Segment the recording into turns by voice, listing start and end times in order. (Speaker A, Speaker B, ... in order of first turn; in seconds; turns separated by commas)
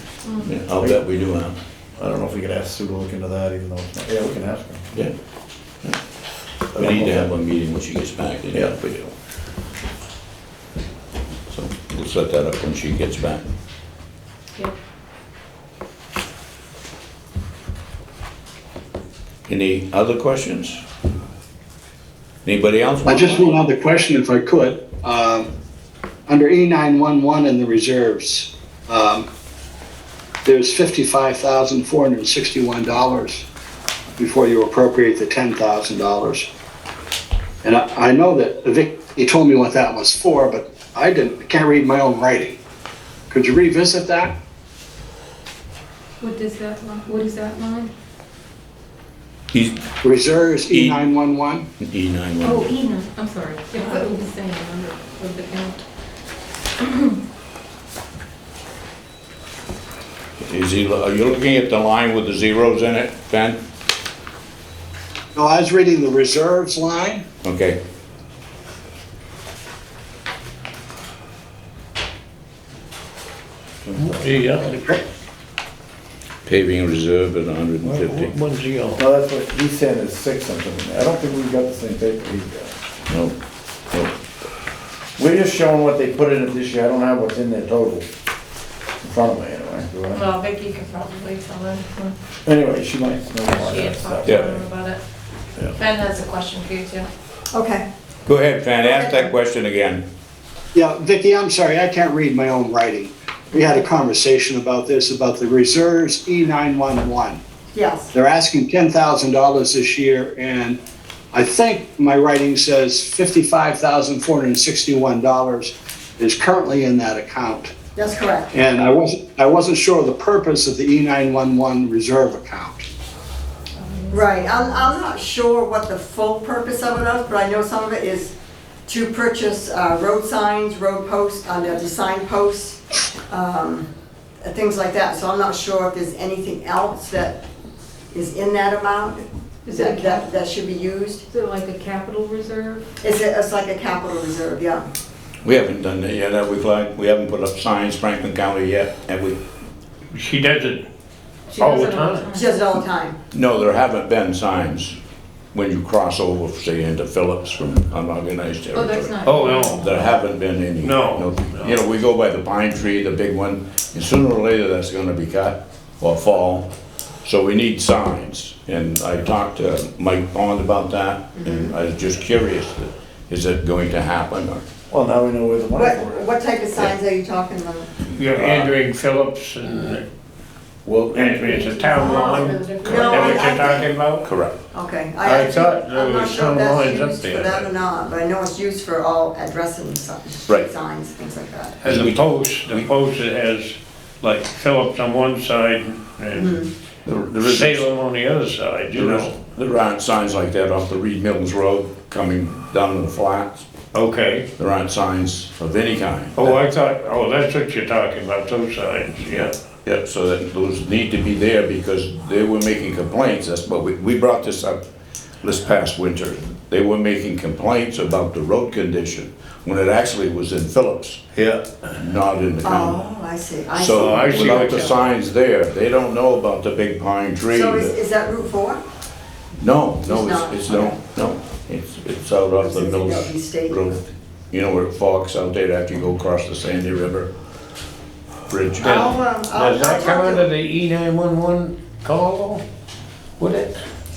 Speaker A: 0.4-1.6, Speaker B: 2.0-4.9, Speaker B: 6.7-7.3, Speaker A: 6.8-9.1, Speaker A: 11.5-13.4, Speaker A: 19.5-20.8, Speaker A: 22.4-23.5, Speaker C: 23.0-25.5, Speaker C: 26.3-29.2, Speaker C: 30.4-33.4, Speaker C: 34.2-36.5, Speaker C: 37.6-42.6, Speaker C: 43.3-44.3, Speaker D: 46.2-47.9, Speaker A: 49.5-49.8, Speaker C: 50.0-51.6, Speaker A: 50.7-51.0, Speaker A: 51.8-52.7, Speaker D: 52.4-55.8, Speaker D: 56.8-57.2, Speaker A: 60.4-63.6, Speaker C: 65.3-67.2, Speaker A: 67.4-67.8, Speaker B: 73.8-74.3, Speaker E: 74.0-75.0, Speaker A: 76.5-78.3, Speaker E: 78.0-79.0, Speaker B: 79.0-82.7, Speaker A: 83.1-83.3, Speaker B: 85.2-88.0, Speaker B: 89.0-90.2, Speaker F: 90.1-92.1, Speaker B: 92.4-94.4, Speaker F: 93.5-95.0, Speaker A: 94.2-94.6, Speaker F: 95.7-97.1, Speaker G: 97.5-97.9, Speaker A: 98.2-100.0, Speaker G: 98.8-99.3, Speaker C: 100.7-107.4, Speaker G: 107.7-108.1, Speaker C: 108.1-110.8, Speaker C: 111.3-117.7, Speaker G: 118.0-118.5, Speaker C: 118.5-122.8, Speaker G: 124.1-128.3, Speaker G: 128.8-133.9, Speaker G: 134.4-137.4, Speaker G: 138.1-141.2, Speaker D: 139.7-140.4, Speaker D: 141.3-142.8, Speaker G: 143.0-144.9, Speaker A: 145.4-149.4, Speaker E: 150.1-150.9, Speaker D: 151.5-152.6, Speaker E: 151.6-152.3, Speaker G: 152.3-153.2, Speaker A: 153.3-154.9, Speaker A: 155.5-166.7, Speaker D: 158.7-160.1, Speaker E: 159.2-159.8, Speaker E: 160.8-161.8, Speaker A: 167.2-174.6, Speaker G: 171.4-171.7, Speaker B: 174.9-176.2, Speaker G: 175.7-177.9, Speaker E: 178.1-180.0, Speaker A: 178.3-178.7, Speaker A: 180.8-181.8, Speaker E: 181.1-184.3, Speaker D: 181.5-183.7, Speaker G: 181.9-183.9, Speaker A: 182.9-183.2, Speaker A: 184.2-184.5, Speaker G: 184.7-191.8, Speaker E: 185.2-187.7, Speaker E: 191.8-196.6, Speaker A: 191.8-192.9, Speaker G: 196.3-196.7, Speaker A: 197.1-197.9, Speaker E: 197.4-199.3, Speaker A: 198.9-203.6, Speaker E: 203.9-204.5, Speaker A: 204.6-206.6, Speaker E: 206.3-209.5, Speaker A: 209.3-214.8, Speaker A: 215.4-221.2, Speaker E: 221.3-221.9, Speaker A: 222.0-223.0, Speaker G: 222.6-224.9, Speaker A: 223.7-227.9, Speaker E: 223.9-224.9, Speaker G: 227.5-228.8, Speaker A: 229.6-237.3, Speaker G: 230.0-230.9, Speaker G: 232.6-233.8, Speaker A: 238.5-238.9, Speaker G: 238.8-240.5, Speaker E: 238.8-242.6, Speaker E: 243.4-243.8